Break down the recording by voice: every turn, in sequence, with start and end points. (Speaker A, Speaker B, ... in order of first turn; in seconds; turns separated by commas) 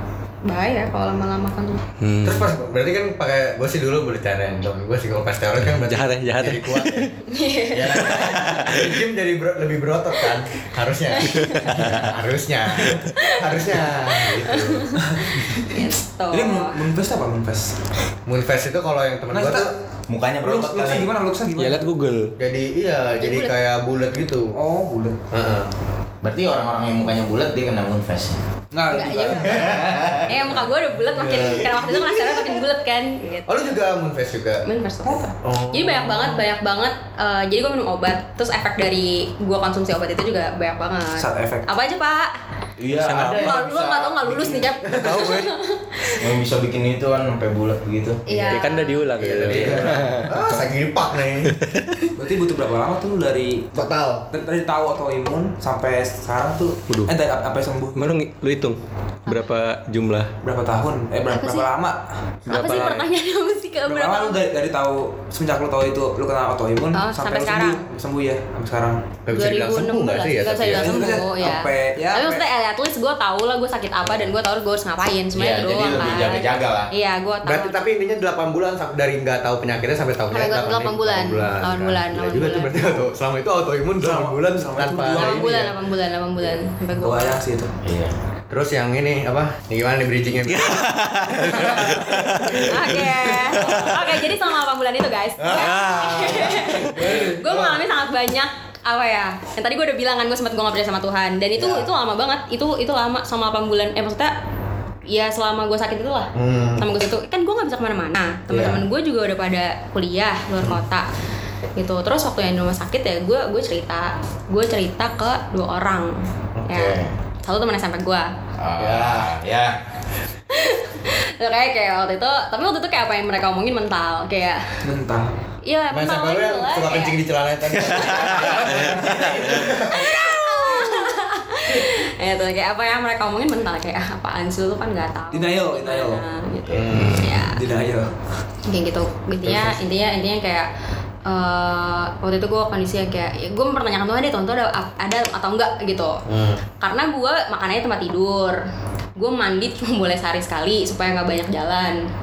Speaker A: 0.4-1.9, Speaker B: 2.0-2.5, Speaker C: 2.2-7.1, Speaker B: 5.7-7.1, Speaker A: 7.3-8.2, Speaker C: 7.7-15.0, Speaker B: 8.0-8.9, Speaker A: 11.2-11.8, Speaker B: 11.5-12.0, Speaker A: 13.1-13.5, Speaker A: 14.1-16.8, Speaker D: 15.0-15.5, Speaker D: 16.3-17.7, Speaker C: 18.2-19.7, Speaker D: 19.3-19.7, Speaker E: 20.1-21.1, Speaker D: 20.4-21.8, Speaker B: 21.6-22.3, Speaker C: 22.4-24.6, Speaker A: 23.2-23.5, Speaker D: 24.5-25.2, Speaker C: 25.3-25.7, Speaker E: 26.2-28.4, Speaker D: 28.7-30.2, Speaker A: 28.9-33.5, Speaker E: 29.4-30.5, Speaker C: 29.7-29.9, Speaker C: 31.1-32.0, Speaker C: 33.5-34.6, Speaker A: 34.6-42.4, Speaker C: 35.4-36.4, Speaker D: 41.2-41.7, Speaker E: 42.8-44.7, Speaker B: 43.0-43.6, Speaker A: 43.3-46.2, Speaker C: 44.9-45.3, Speaker B: 45.0-45.5, Speaker E: 46.1-48.5, Speaker A: 48.3-49.0, Speaker C: 48.3-48.6, Speaker B: 48.5-50.3, Speaker C: 49.2-51.6, Speaker E: 49.2-50.0, Speaker B: 51.6-51.9, Speaker D: 52.1-53.8, Speaker C: 53.7-54.3, Speaker D: 54.3-58.0, Speaker B: 57.9-60.3, Speaker D: 60.4-63.0, Speaker A: 61.3-61.7, Speaker A: 62.5-64.4, Speaker D: 63.9-69.0, Speaker A: 66.9-67.8, Speaker C: 69.2-71.0, Speaker A: 69.3-77.8, Speaker D: 70.6-72.4, Speaker E: 75.3-76.9, Speaker C: 77.4-85.7, Speaker A: 80.3-83.0, Speaker D: 84.0-85.7, Speaker A: 85.1-87.4, Speaker D: 86.9-87.7, Speaker E: 87.8-88.1, Speaker C: 88.5-92.6, Speaker B: 90.5-93.0, Speaker E: 91.2-91.6, Speaker A: 92.6-104.3, Speaker B: 95.5-96.4, Speaker C: 95.8-97.8, Speaker C: 101.6-101.9, Speaker A: 105.1-111.1, Speaker C: 106.3-106.8, Speaker C: 108.5-108.8, Speaker A: 111.8-118.3, Speaker C: 116.5-117.1, Speaker E: 118.6-119.7, Speaker C: 118.8-119.3, Speaker A: 120.5-124.8, Speaker D: 124.8-125.3, Speaker A: 125.6-127.2, Speaker C: 125.9-130.5, Speaker D: 128.2-129.8, Speaker A: 129.8-137.6, Speaker D: 135.3-136.2, Speaker C: 136.7-137.4, Speaker D: 136.9-138.1, Speaker A: 138.7-140.7, Speaker C: 139.4-139.8, Speaker A: 141.2-146.2, Speaker C: 146.2-146.6, Speaker A: 146.8-148.6, Speaker A: 149.2-152.0